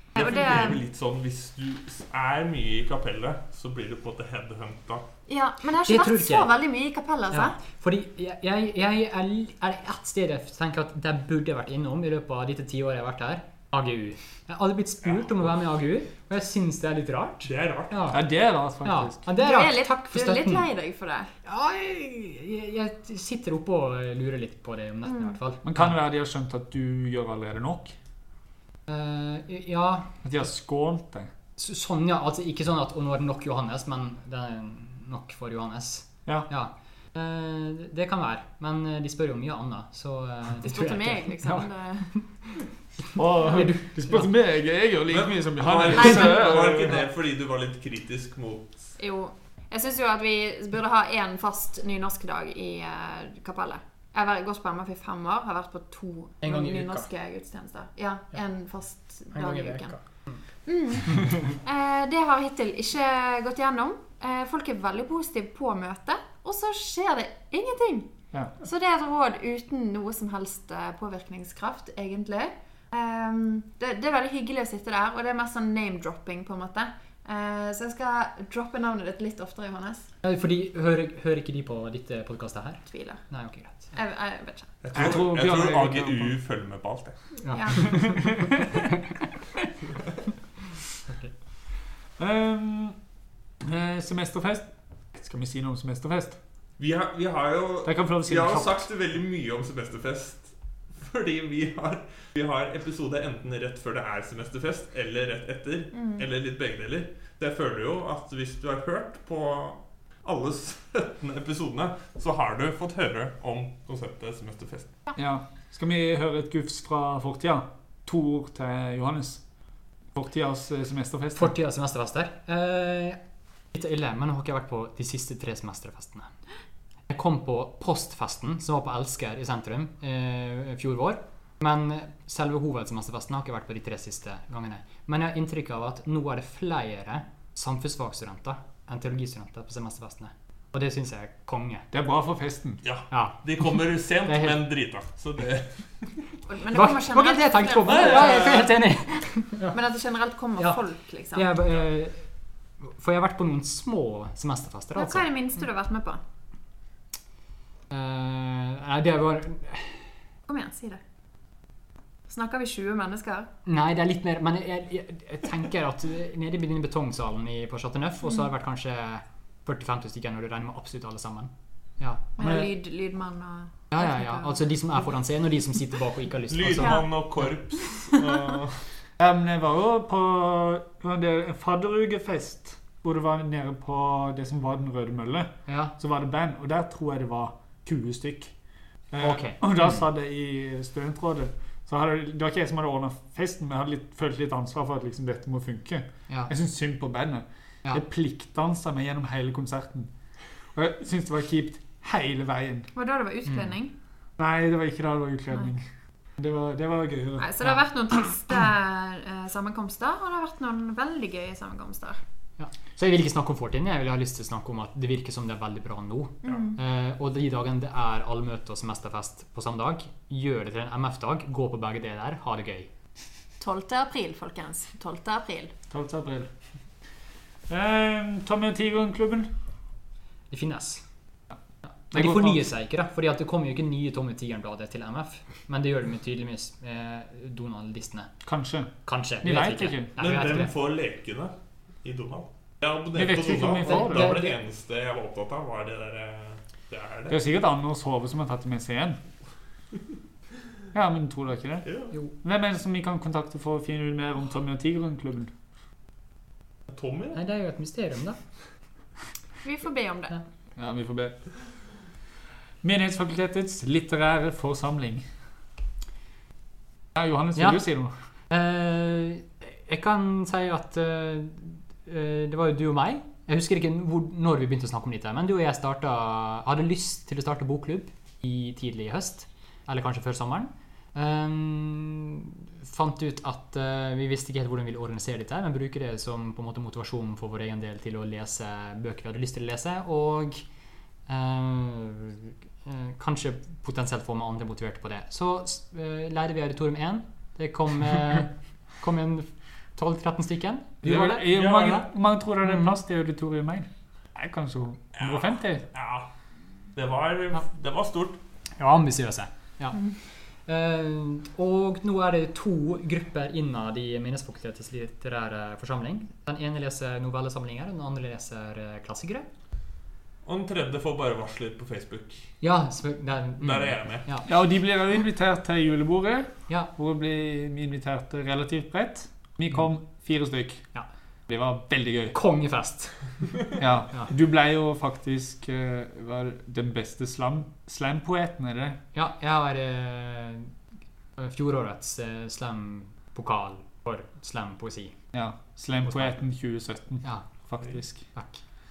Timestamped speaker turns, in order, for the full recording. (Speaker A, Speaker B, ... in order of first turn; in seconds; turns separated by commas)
Speaker A: 0.1-0.8, Speaker B: 0.1-5.1, Speaker A: 5.3-7.6, Speaker C: 5.9-6.5, Speaker C: 7.3-18.2, Speaker B: 17.4-18.1, Speaker D: 18.1-19.2, Speaker C: 18.8-20.6, Speaker A: 19.4-21.3, Speaker C: 21.4-25.9, Speaker A: 25.1-25.3, Speaker D: 25.6-27.9, Speaker C: 28.9-30.2, Speaker D: 30.2-31.3, Speaker C: 31.6-42.2, Speaker A: 40.6-42.2, Speaker C: 43.1-44.3, Speaker D: 43.1-47.0, Speaker B: 45.1-48.9, Speaker A: 46.0-46.6, Speaker A: 49.0-60.0, Speaker C: 56.4-57.1, Speaker C: 59.3-60.4, Speaker A: 60.6-68.1, Speaker A: 68.6-80.1, Speaker C: 80.2-83.9, Speaker A: 82.9-83.2, Speaker A: 83.9-84.8, Speaker B: 84.8-87.2, Speaker D: 84.9-86.3, Speaker C: 87.4-88.7, Speaker A: 87.5-88.4, Speaker D: 87.9-88.5, Speaker D: 92.2-93.0, Speaker D: 93.6-96.4, Speaker B: 96.8-114.9, Speaker D: 97.8-98.8, Speaker A: 106.0-106.2, Speaker D: 115.2-119.4, Speaker D: 120.1-121.6, Speaker C: 121.4-123.2, Speaker C: 123.7-126.3, Speaker C: 127.1-141.9, Speaker D: 141.9-142.8, Speaker B: 142.8-146.1, Speaker C: 143.1-144.6, Speaker A: 146.5-148.6, Speaker C: 146.7-149.8, Speaker B: 147.9-148.7, Speaker A: 149.7-151.5, Speaker C: 151.3-152.3, Speaker C: 152.8-155.3, Speaker A: 154.9-156.2, Speaker C: 157.9-160.1, Speaker A: 160.5-161.0, Speaker A: 162.3-163.5, Speaker C: 163.7-172.7, Speaker A: 172.4-174.5, Speaker C: 173.9-177.5, Speaker B: 176.5-178.8, Speaker D: 179.2-188.5, Speaker C: 185.7-185.9, Speaker D: 189.1-200.1, Speaker C: 189.2-190.1, Speaker D: 200.8-202.9, Speaker A: 202.9-203.9, Speaker C: 203.5-203.7, Speaker D: 204.4-205.8, Speaker D: 206.4-207.6, Speaker A: 207.4-212.2, Speaker C: 212.6-222.9, Speaker A: 216.4-216.8, Speaker A: 223.6-225.7, Speaker D: 225.9-226.5, Speaker D: 227.7-229.5, Speaker C: 230.5-231.0, Speaker C: 232.1-238.3, Speaker D: 232.1-232.6, Speaker D: 238.4-240.3, Speaker C: 239.1-240.7, Speaker B: 240.2-247.4, Speaker D: 243.1-244.4, Speaker C: 243.6-244.6, Speaker D: 247.3-249.2, Speaker D: 250.9-255.5, Speaker B: 251.9-252.1, Speaker B: 256.9-257.4, Speaker C: 257.3-258.4, Speaker A: 259.6-260.4, Speaker D: 260.8-261.4, Speaker D: 262.8-265.2, Speaker D: 267.1-268.1, Speaker C: 267.6-267.8, Speaker C: 268.5-290.6, Speaker C: 291.3-301.4, Speaker D: 301.0-305.9, Speaker B: 301.0-302.1, Speaker C: 302.6-302.9, Speaker B: 305.2-306.3, Speaker B: 306.9-308.4, Speaker C: 308.8-310.1, Speaker C: 310.7-319.5, Speaker B: 320.4-322.5, Speaker C: 322.6-324.5, Speaker B: 323.6-324.3, Speaker D: 324.5-330.9, Speaker D: 331.5-332.4, Speaker C: 332.3-333.5, Speaker D: 333.8-339.0, Speaker C: 339.1-340.7, Speaker C: 341.4-345.2, Speaker D: 345.3-348.3, Speaker C: 346.1-346.3, Speaker C: 348.3-348.6